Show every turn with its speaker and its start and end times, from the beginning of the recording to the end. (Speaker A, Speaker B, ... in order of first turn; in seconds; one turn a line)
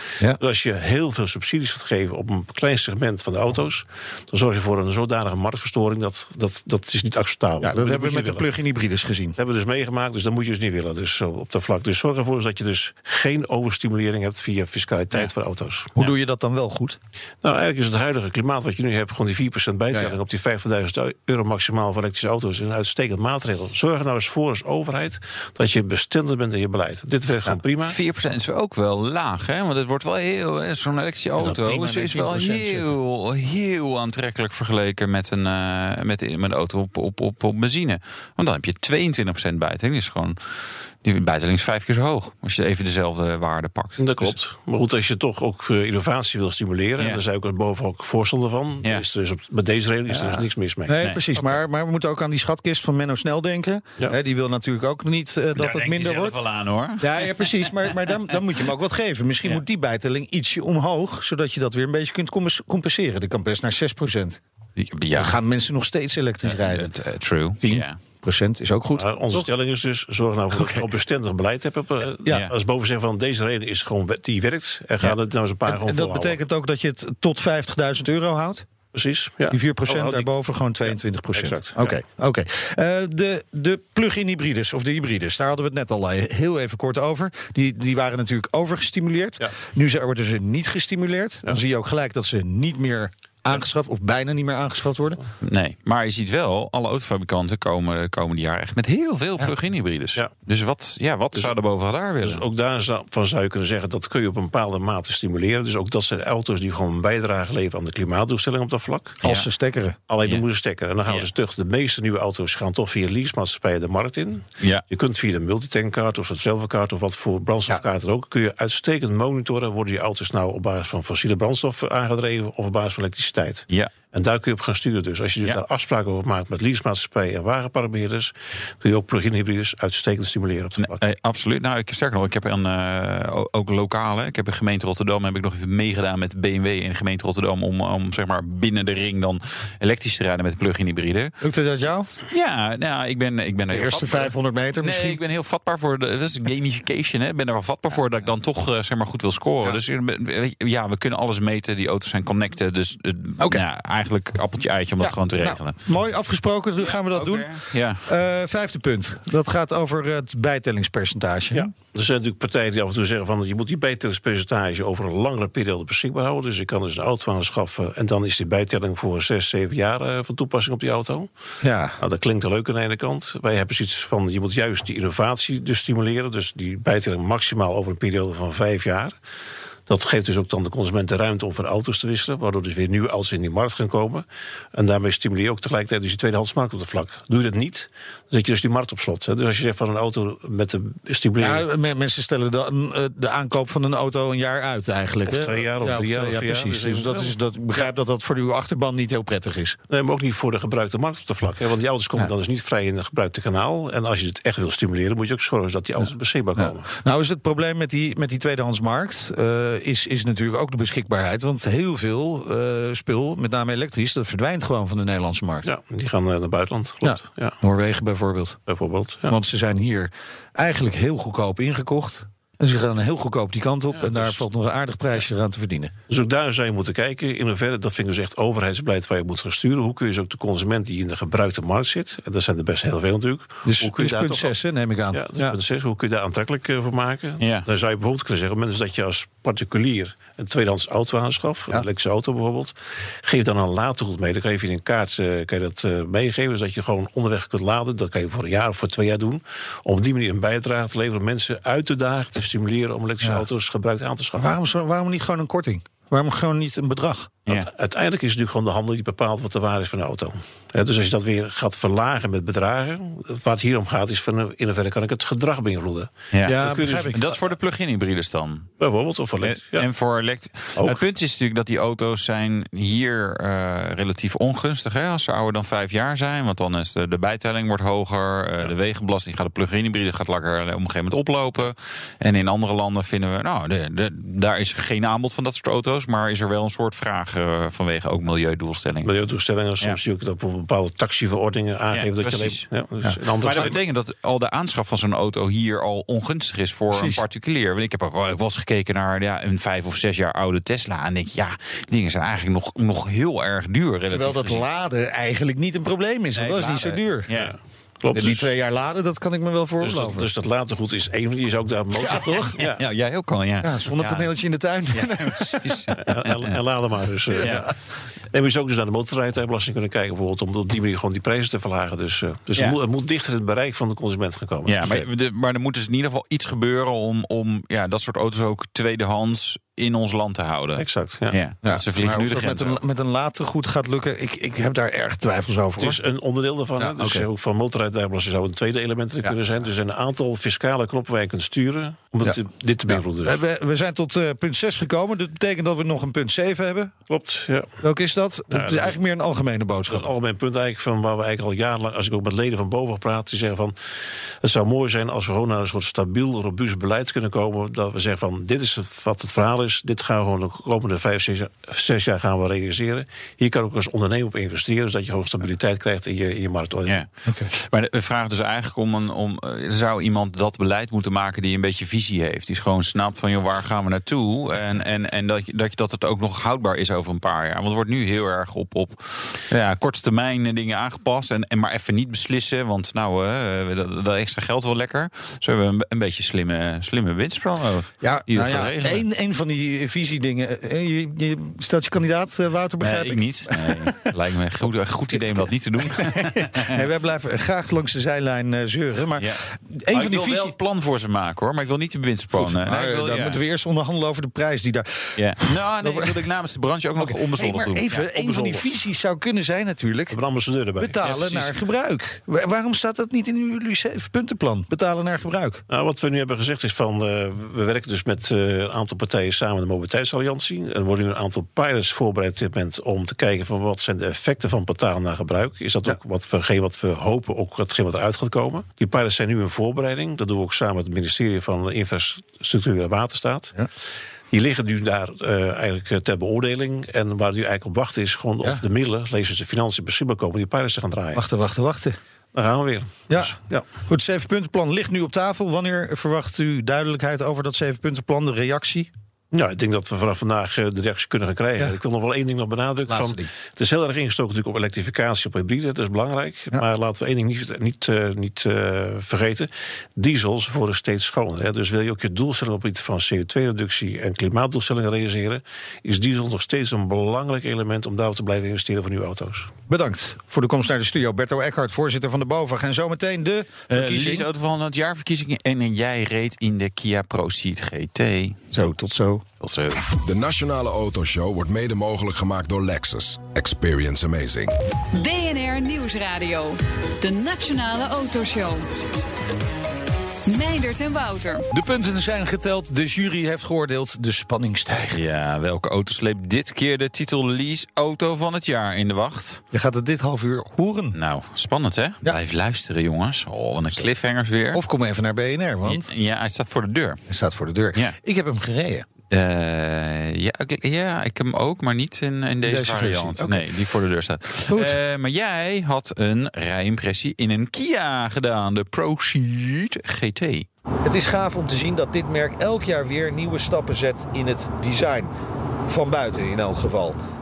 Speaker A: 0.4-8.5
Speaker B: 7.6-9.4
Speaker A: 9.4-16.0
Speaker B: 16.0-17.0
Speaker A: 17.4-28.0
Speaker C: 27.9-40.4
Speaker B: 31.4-32.9
Speaker C: 41.0-44.3
Speaker A: 44.0-51.0
Speaker B: 50.1-56.4
Speaker C: 55.5-57.7
Speaker B: 57.0-64.4
Speaker C: 64.8-65.4
Speaker B: 65.1-66.9
Speaker C: 66.4-68.0
Speaker B: 67.6-69.5
Speaker A: 69.0-76.4
Speaker B: 70.5-70.8
Speaker B: 75.7-78.7
Speaker A: 78.9-80.3
Speaker B: 79.5-95.2
Speaker A: 80.8-82.0
Speaker C: 95.4-102.4
Speaker A: 102.2-109.2
Speaker C: 109.2-109.5
Speaker B: 109.2-110.0
Speaker A: 110.1-131.0
Speaker C: 130.8-141.3
Speaker B: 141.4-142.1
Speaker C: 142.3-155.8
Speaker B: 143.7-145.2
Speaker B: 155.0-161.7
Speaker C: 156.8-158.1
Speaker A: 161.5-171.3
Speaker B: 171.6-172.0
Speaker A: 172.0-179.2
Speaker A: 179.9-191.7
Speaker B: 191.4-199.8
Speaker A: 195.3-197.4
Speaker A: 199.9-206.9
Speaker B: 206.6-215.7
Speaker A: 215.6-217.6
Speaker B: 217.0-218.6
Speaker A: 218.7-219.4
Speaker B: 219.3-225.9
Speaker A: 223.9-224.4
Speaker A: 226.1-234.6
Speaker B: 233.6-235.6
Speaker A: 235.1-254.5
Speaker C: 237.4-237.7
Speaker B: 254.4-257.3
Speaker A: 257.5-267.4
Speaker C: 266.3-268.7
Speaker B: 266.4-267.2
Speaker A: 268.8-269.9
Speaker C: 269.4-289.1
Speaker A: 270.8-271.0
Speaker A: 289.0-293.8
Speaker C: 291.9-292.6
Speaker C: 293.4-304.6
Speaker B: 296.9-297.2
Speaker B: 304.1-307.3
Speaker C: 306.4-307.5
Speaker A: 307.3-308.5
Speaker B: 308.1-310.3
Speaker A: 309.8-312.8
Speaker B: 312.0-312.6
Speaker C: 312.6-314.3
Speaker B: 313.6-315.9
Speaker C: 314.9-316.6
Speaker A: 316.1-317.7
Speaker B: 317.4-317.7
Speaker C: 317.4-317.7
Speaker A: 318.3-324.8
Speaker C: 324.7-332.8
Speaker A: 330.8-331.4
Speaker B: 331.6-336.0
Speaker A: 335.8-343.4
Speaker B: 336.8-337.3
Speaker B: 342.2-346.9
Speaker A: 347.1-347.8
Speaker B: 347.8-350.1
Speaker A: 348.5-349.0
Speaker A: 349.9-353.8
Speaker A: 354.4-367.0
Speaker C: 366.9-389.1
Speaker B: 388.0-394.1
Speaker C: 392.8-396.8
Speaker B: 395.1-400.6
Speaker C: 399.2-403.4
Speaker B: 402.4-406.2
Speaker C: 405.2-408.1
Speaker B: 407.0-410.2
Speaker A: 408.0-408.8
Speaker A: 410.1-411.4
Speaker B: 410.8-415.6
Speaker A: 415.7-433.5
Speaker A: 434.3-441.2
Speaker B: 441.1-442.0
Speaker A: 442.3-443.6
Speaker B: 443.1-448.9
Speaker A: 449.3-469.5
Speaker B: 452.9-453.3
Speaker B: 469.7-474.3
Speaker C: 473.7-478.4
Speaker B: 478.5-479.2
Speaker C: 479.4-479.8
Speaker D: 479.8-484.5
Speaker E: 484.9-488.8
Speaker E: 490.3-491.4
Speaker B: 491.5-495.1
Speaker C: 494.9-499.4
Speaker B: 499.5-501.0
Speaker C: 500.9-504.6
Speaker B: 504.5-505.9
Speaker C: 505.7-507.0
Speaker B: 507.1-508.9
Speaker C: 509.1-520.5
Speaker B: 512.4-513.5
Speaker B: 514.5-514.8
Speaker B: 520.9-525.1
Speaker B: 525.7-527.0